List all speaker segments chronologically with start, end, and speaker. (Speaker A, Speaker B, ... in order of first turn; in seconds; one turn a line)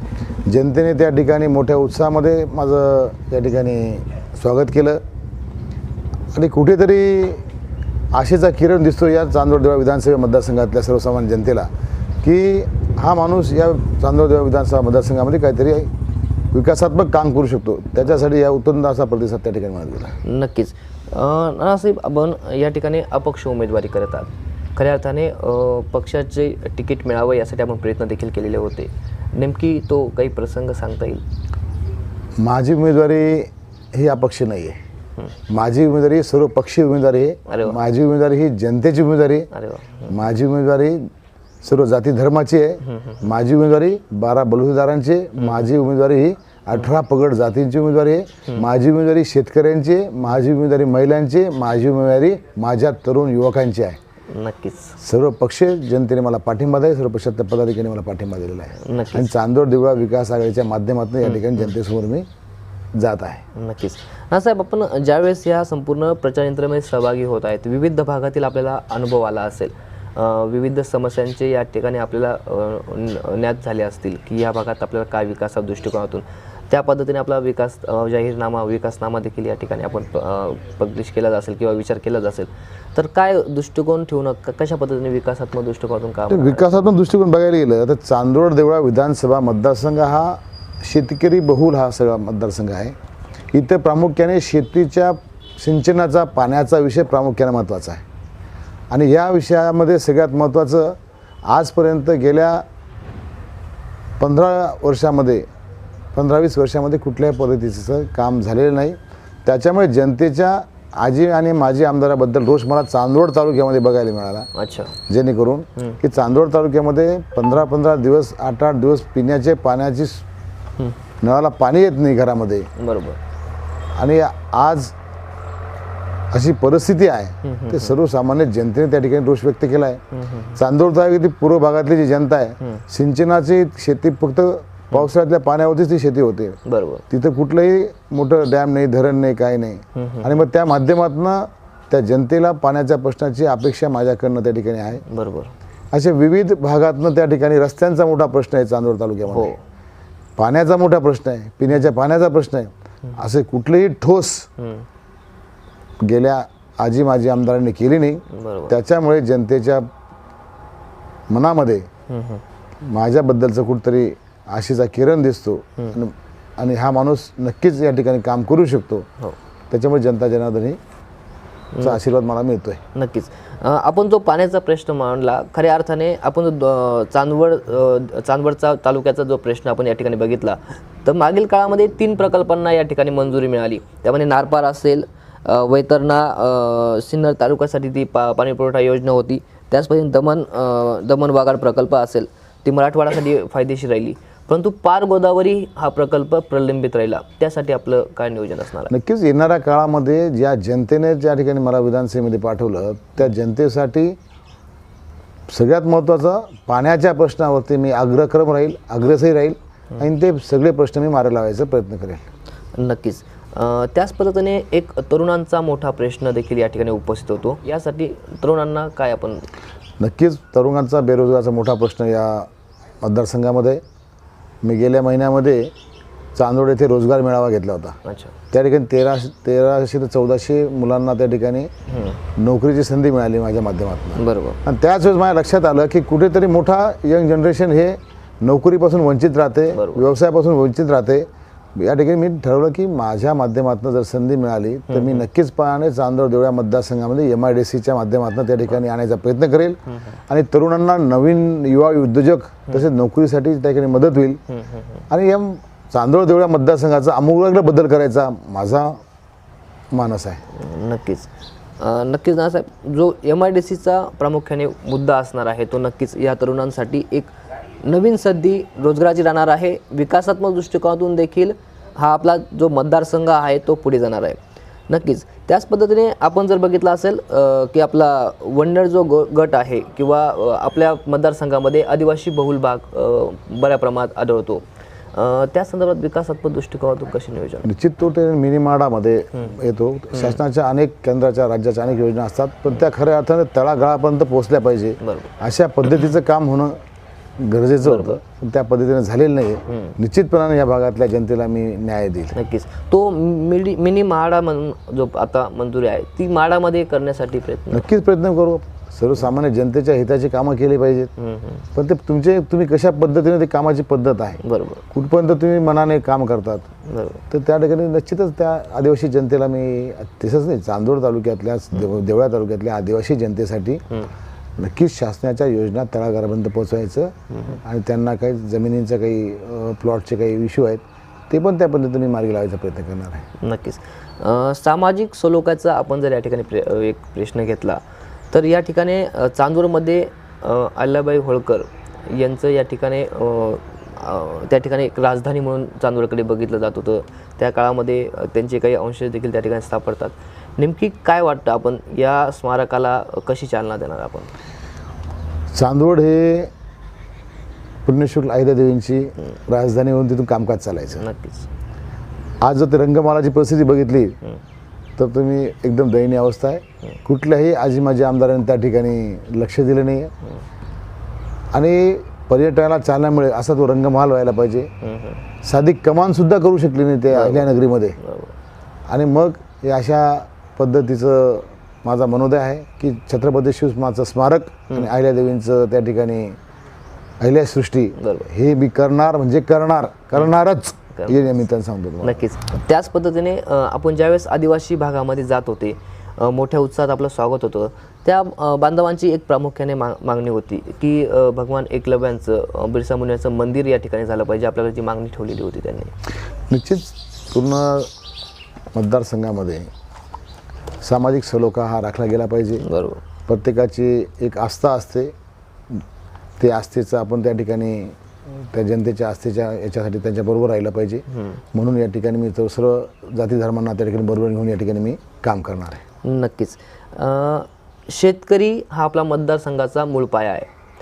Speaker A: 0.5-5.0
Speaker A: 6.3-7.4
Speaker A: 8.1-11.7
Speaker A: 12.2-15.9
Speaker A: 16.5-20.1
Speaker B: 20.2-31.2
Speaker A: 32.4-34.8
Speaker A: 35.5-39.5
Speaker B: 37.5-37.8
Speaker B: 39.5-40.1
Speaker A: 40.1-41.1
Speaker A: 41.6-54.0
Speaker B: 42.9-43.2
Speaker B: 45.4-45.6
Speaker B: 54.3-54.9
Speaker A: 55.0-62.2
Speaker B: 58.8-59.3
Speaker B: 61.2-61.7
Speaker A: 63.0-63.4
Speaker B: 63.5-86.9
Speaker A: 86.3-92.9
Speaker A: 93.5-98.0
Speaker A: 98.9-102.6
Speaker A: 104.2-105.4
Speaker A: 106.1-114.5
Speaker B: 114.5-115.0
Speaker A: 115.1-120.2
Speaker A: 121.2-122.7
Speaker B: 122.8-123.2
Speaker A: 124.0-124.9
Speaker A: 126.3-130.0
Speaker B: 127.4-127.9
Speaker B: 130.1-130.6
Speaker A: 130.6-136.6
Speaker B: 136.7-137.0
Speaker A: 137.1-145.0
Speaker B: 139.9-140.3
Speaker B: 145.1-145.5
Speaker A: 145.9-149.5
Speaker B: 149.3-149.6
Speaker A: 150.4-154.5
Speaker B: 154.6-154.8
Speaker A: 156.0-159.9
Speaker B: 158.3-158.8
Speaker A: 161.3-161.9
Speaker B: 162.1-162.4
Speaker A: 162.8-169.1
Speaker A: 169.7-170.8
Speaker B: 171.7-172.0
Speaker A: 171.8-172.8
Speaker B: 172.9-198.9
Speaker A: 198.9-204.2
Speaker A: 205.5-212.2
Speaker B: 212.7-219.5
Speaker A: 220.0-222.5
Speaker A: 223.0-223.8
Speaker A: 224.6-225.7
Speaker A: 226.3-228.0
Speaker B: 228.0-228.3
Speaker A: 228.5-231.7
Speaker B: 231.9-232.2
Speaker A: 232.4-254.4
Speaker B: 234.2-234.6
Speaker B: 239.7-240.1
Speaker B: 244.9-245.2
Speaker B: 254.5-255.0
Speaker A: 255.1-259.0
Speaker A: 259.9-260.4
Speaker B: 260.5-287.7
Speaker A: 287.6-296.8
Speaker B: 295.0-295.3
Speaker A: 297.4-302.4
Speaker B: 297.8-298.2
Speaker B: 299.7-299.9
Speaker B: 302.3-307.9
Speaker A: 307.7-311.1
Speaker B: 311.2-311.7
Speaker A: 311.7-314.4
Speaker B: 314.4-314.8
Speaker A: 314.9-316.6
Speaker B: 316.9-317.2
Speaker A: 317.3-323.8
Speaker A: 324.6-333.2
Speaker B: 327.3-327.6
Speaker B: 333.4-337.8
Speaker B: 338.3-354.3
Speaker A: 355.5-356.5
Speaker A: 357.8-361.0
Speaker B: 361.0-361.5
Speaker A: 362.4-364.1
Speaker A: 365.0-370.1
Speaker A: 371.5-374.7
Speaker B: 374.8-375.2
Speaker A: 375.4-378.0
Speaker B: 377.1-378.3
Speaker A: 378.9-386.4
Speaker A: 387.2-392.2
Speaker B: 388.0-388.3
Speaker B: 392.0-405.9
Speaker A: 406.5-407.9
Speaker A: 408.7-409.7
Speaker A: 410.8-412.6
Speaker B: 412.6-413.0
Speaker A: 413.3-415.1
Speaker A: 416.4-425.8
Speaker B: 421.1-421.4
Speaker B: 426.0-430.5